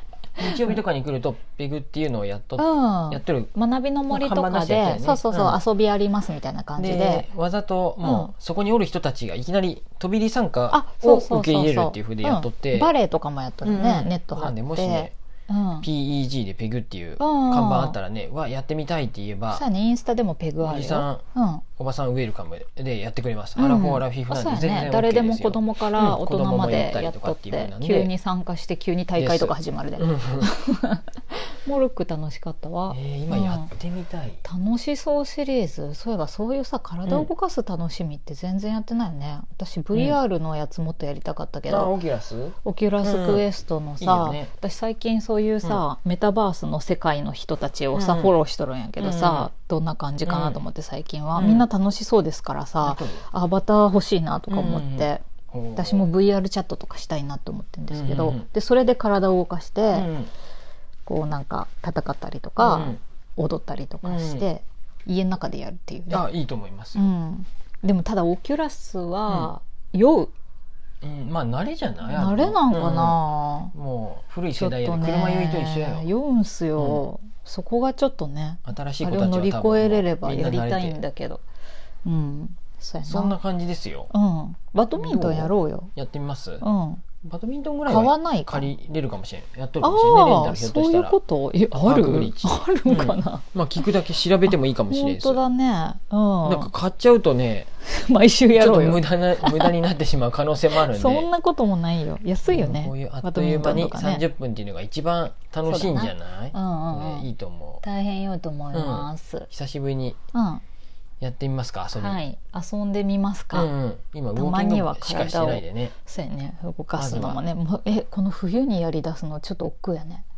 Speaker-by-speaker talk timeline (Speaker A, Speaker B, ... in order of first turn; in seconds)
Speaker A: 0.4-3.5, 4.1-5.6, 6.8-12.9, 13.6-15.1, 15.8-19.6, 20.6-21.2, 21.8-28.1, 29.1-30.5, 32.9-34.4, 41.7-43.4, 44.0-44.5, 47.9-48.3, 49.0-49.5, 50.2-50.6, 51.4-51.6, 52.8-53.2, 54.5-56.1, 57.9-58.5, 59.9-60.3, 62.6-63.0, 64.0-64.5, 66.1-67.1, 71.0-73.2, 73.7-76.0, 76.8-77.0, 78.7-81.0, 83.0-84.1, 85.0-86.6, 87.2-91.2, 91.7-95.4, 96.4-97.7, 98.5-101.3, 102.5-107.8, 108.7-110.2, 111.2-112.2, 113.5-115.9, 117.0-117.4
Speaker B: 2.6-7.2, 8.0-8.3, 10.7-15.9, 17.2-18.0, 19.5-21.7, 23.6-33.7, 34.4-41.9, 42.6-55.2, 55.8-60.1, 61.0-66.3, 66.9-70.3, 72.0-73.7, 74.5-81.4, 82.0-83.4, 84.1-85.9, 86.6-87.0, 87.9-88.7, 89.8-93.8, 94.5-96.7, 97.8-99.7, 100.7-104.2, 105.7-107.3, 107.8-109.5, 110.3-110.6, 112.0-113.7, 114.3-120.2